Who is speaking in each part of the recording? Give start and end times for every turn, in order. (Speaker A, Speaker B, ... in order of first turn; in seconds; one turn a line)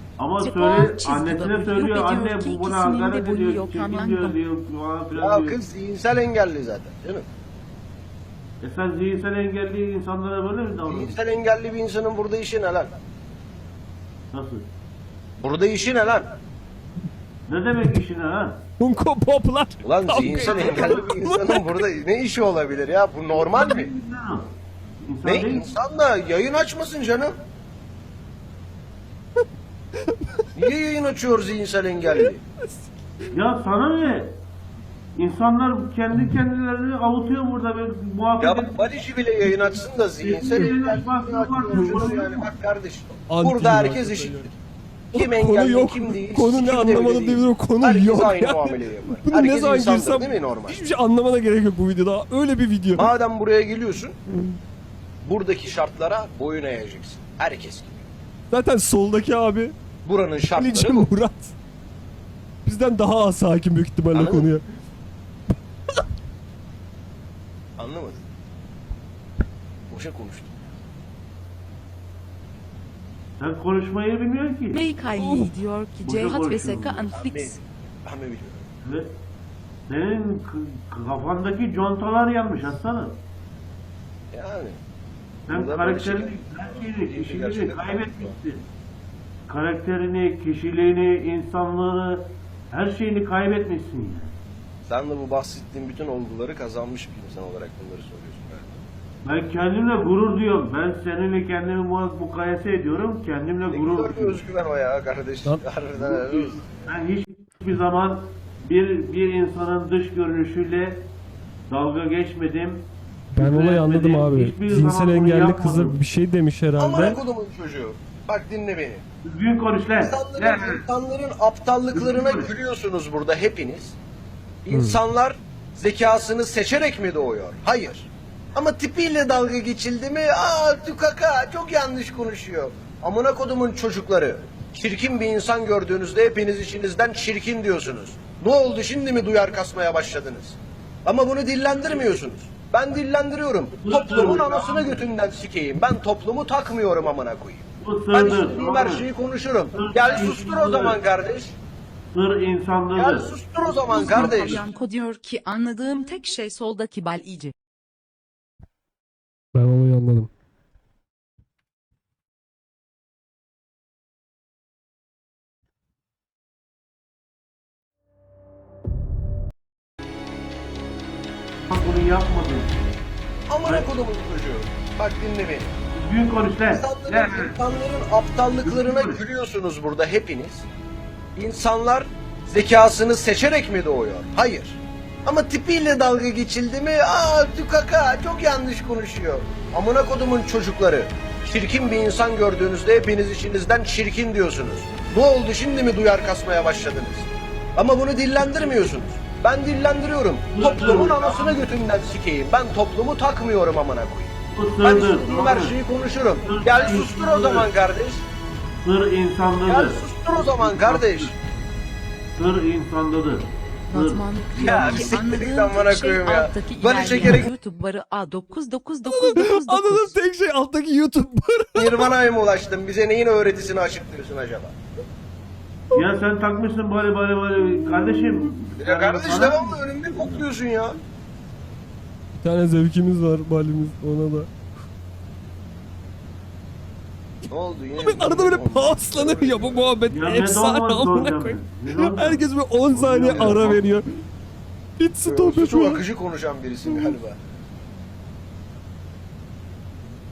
Speaker A: 0.2-5.6
Speaker B: 0.4-4.4
Speaker C: 5.2-7.3
Speaker A: 8.6-11.2
Speaker C: 10.9-12.9
Speaker A: 14.3-14.7
Speaker C: 15.4-16.3
Speaker A: 17.5-18.6
Speaker D: 18.8-21.8
Speaker C: 19.8-23.9
Speaker A: 20.3-21.1
Speaker A: 23.4-24.5
Speaker A: 25.0-25.7
Speaker C: 25.2-27.4
Speaker D: 30.0-30.4
Speaker C: 30.6-32.4
Speaker D: 32.6-33.0
Speaker A: 33.3-34.4
Speaker A: 35.2-38.8
Speaker C: 38.4-44.5
Speaker A: 40.2-42.5
Speaker D: 41.8-42.0
Speaker D: 43.3-44.5
Speaker C: 45.1-50.8
Speaker D: 45.1-53.1
Speaker C: 53.0-54.2
Speaker D: 54.3-54.6
Speaker C: 55.2-58.1
Speaker D: 58.5-59.7
Speaker C: 60.0-61.1
Speaker D: 60.5-61.5
Speaker D: 62.6-64.6
Speaker C: 64.1-64.5
Speaker C: 67.8-68.3
Speaker C: 69.9-70.7
Speaker A: 73.4-74.8
Speaker B: 74.7-77.6
Speaker A: 76.0-77.1
Speaker C: 77.1-78.7
Speaker A: 78.8-79.1
Speaker A: 79.9-83.2
Speaker C: 84.3-84.8
Speaker C: 85.5-88.4
Speaker A: 85.5-88.7
Speaker A: 89.5-94.3
Speaker C: 94.9-98.8
Speaker A: 99.2-104.4
Speaker C: 103.7-106.7
Speaker A: 106.0-111.1
Speaker A: 111.7-116.0
Speaker D: 113.3-117.2
Speaker C: 116.8-119.0
Speaker A: 119.2-120.8
Speaker C: 119.9-124.0
Speaker A: 121.9-122.5
Speaker C: 124.7-151.6
Speaker D: 124.7-125.0
Speaker A: 143.8-145.1
Speaker A: 147.8-149.1
Speaker A: 149.7-151.0
Speaker A: 152.1-153.4
Speaker C: 152.9-154.6
Speaker B: 153.9-157.5
Speaker A: 153.9-154.7
Speaker D: 159.6-160.3
Speaker A: 171.7-172.8
Speaker C: 173.5-175.7
Speaker A: 175.9-177.6
Speaker C: 176.7-180.7
Speaker A: 178.6-179.2
Speaker C: 181.4-208.3
Speaker A: 200.5-201.6
Speaker A: 204.5-205.8
Speaker A: 206.4-207.7
Speaker A: 208.8-211.3
Speaker C: 209.7-211.3
Speaker A: 212.4-215.2
Speaker B: 213.9-220.2
Speaker C: 214.6-217.5
Speaker D: 219.2-222.1
Speaker C: 221.8-224.8
Speaker A: 225.9-229.8
Speaker C: 228.8-231.0
Speaker D: 232.4-234.5
Speaker C: 237.5-239.9
Speaker D: 238.0-244.1
Speaker A: 240.1-243.8
Speaker D: 245.0-246.0
Speaker C: 245.2-247.4